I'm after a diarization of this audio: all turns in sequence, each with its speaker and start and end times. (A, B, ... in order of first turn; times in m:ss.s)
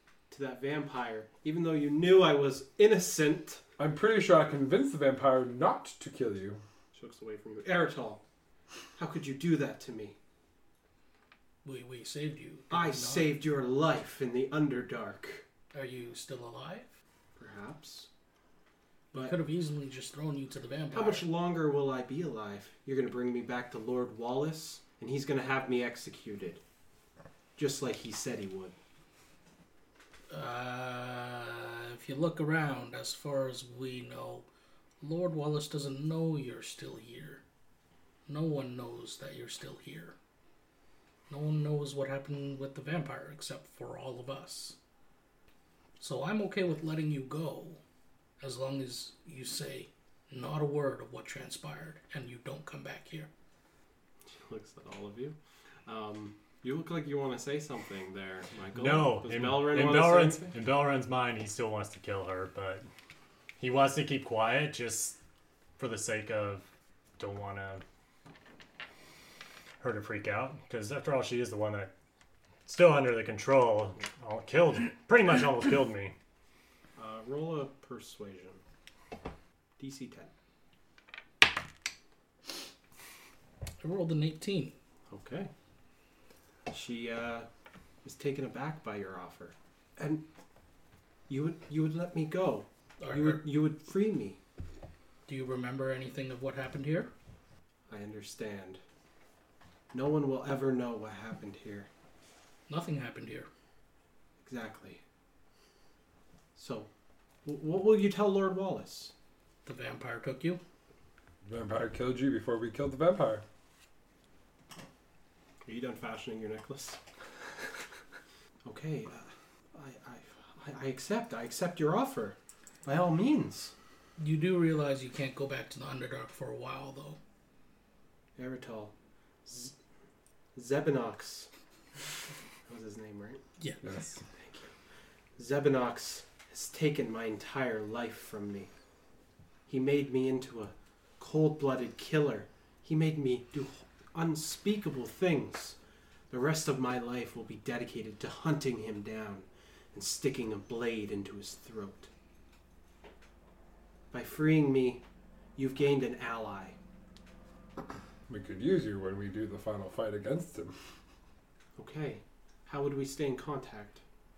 0:00.3-0:03.6 A
0:03.8-0:06.6 B
0:06.9-0:08.2 A
0:09.0-0:10.2 A
0:11.6-0:13.3 C
0:12.7-0:15.4 A
0:15.7-0:16.9 C
0:17.4-0:18.1 A
0:19.1-0:19.4 A
0:19.1-0:21.3 C
0:20.9-0:26.6 A
0:27.6-0:28.8 A
0:30.3-0:34.4 C
0:35.0-0:37.4 C
0:38.2-0:40.1 C
0:41.3-0:44.8 C
0:46.0-0:47.8 C
0:48.4-0:53.3 C
0:54.2-1:00.5 A
0:58.7-1:02.8 D
1:03.6-1:05.2 D
1:05.8-1:06.6 D
1:07.2-1:07.8 D
1:09.8-1:11.9 D
1:12.6-1:16.1 D
1:17.0-1:18.6 A
1:19.8-1:20.3 A
1:23.8-1:24.7 C
1:25.1-1:25.5 A
1:26.7-1:27.5 A
1:28.0-1:30.2 A
1:31.3-1:34.4 A
1:33.0-1:33.5 C
1:35.3-1:37.1 C
1:37.9-1:38.8 A
1:39.9-1:41.9 A
1:42.7-1:43.5 C
1:44.4-1:45.0 A
1:46.5-1:46.9 A
1:47.4-1:49.1 A
1:49.6-1:50.6 C
1:51.4-1:53.4 B
1:55.6-1:57.0 A
1:58.6-2:03.7 A
2:04.2-2:07.2 C
2:08.4-2:08.9 A
2:09.4-2:09.7 A
2:10.5-2:11.5 A
2:12.6-2:13.4 A
2:13.8-2:14.2 B
2:14.3-2:14.7 A
2:15.4-2:18.7 A
2:19.7-2:25.8 A
2:26.3-2:32.1 A
2:34.1-2:35.0 A
2:35.6-2:36.8 A
2:38.3-2:40.7 B
2:41.8-2:44.0 A